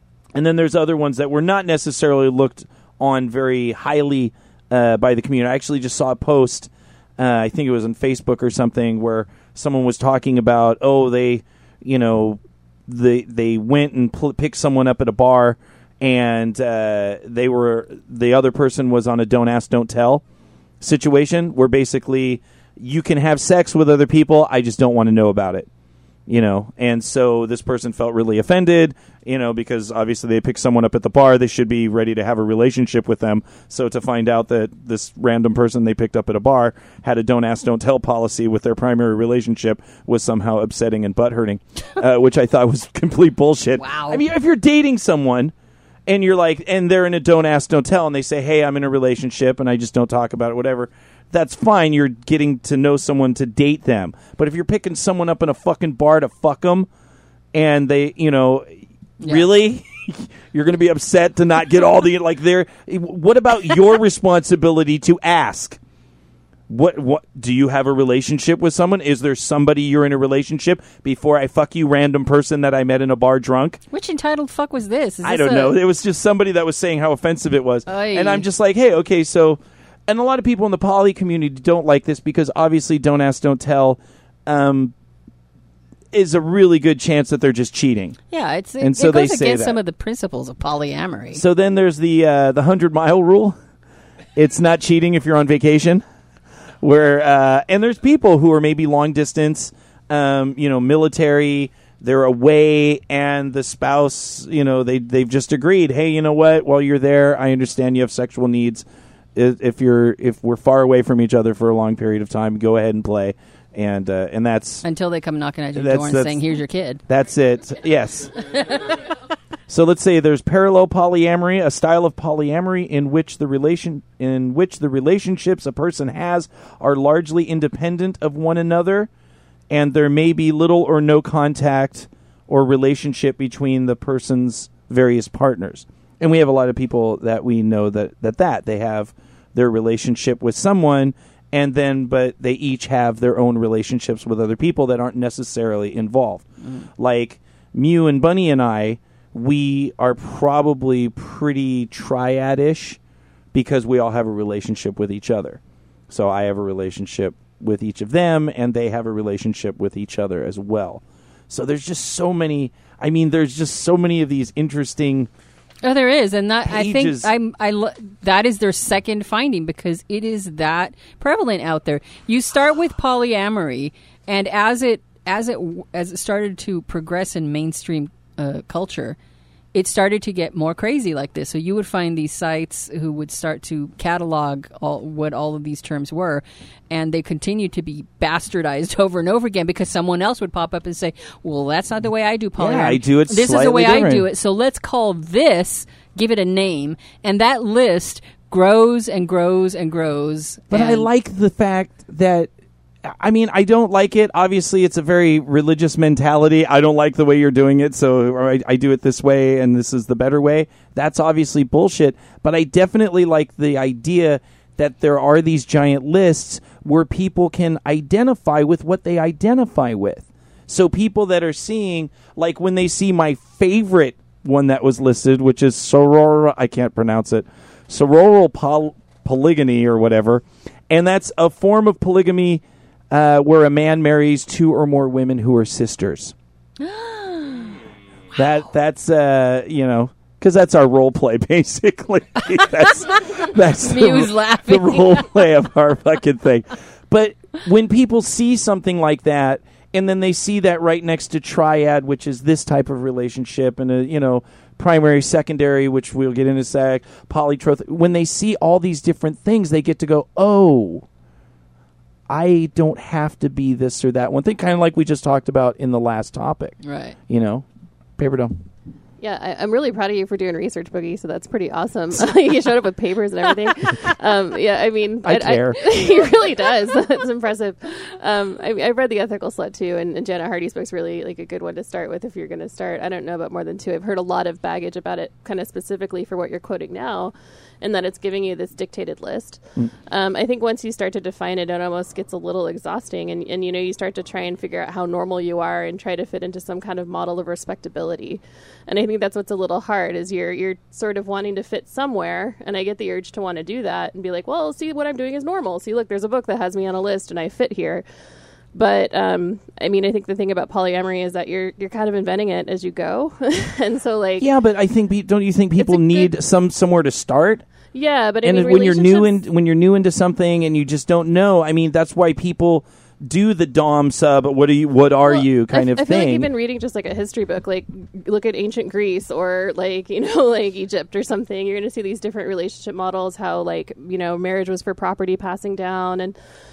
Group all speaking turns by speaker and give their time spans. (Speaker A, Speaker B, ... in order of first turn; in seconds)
Speaker A: 0.3-20.2, 20.8-25.7, 26.3-45.5, 46.1-56.9, 57.5-65.8, 66.7-73.8, 75.2-84.9, 86.1-88.2, 88.8-89.8, 91.3-93.6, 94.4-96.0, 96.8-114.8, 115.8-116.4, 117.1-118.5, 119.7-129.1, 129.7-146.5, 147.0-153.0, 153.5-165.3, 166.7-167.3, 192.6-194.3, 200.7-202.5, 203.0-236.3, 238.3-261.1, 262.3-266.8, 267.3-267.7, 268.2-268.5, 275.2-275.9, 314.4-317.6, 318.4-326.5
Speaker B: 43.8-44.2, 59.2-59.5, 73.9-75.8, 77.9-78.5, 88.3-91.4, 114.8-117.0, 118.5-119.0, 165.8-179.2, 179.7-201.1, 236.8-237.8, 243.8-245.4, 266.8-267.2
Speaker C: 269.2-308.1, 308.7-314.5, 315.8-316.3, 317.9-319.4, 325.3-336.4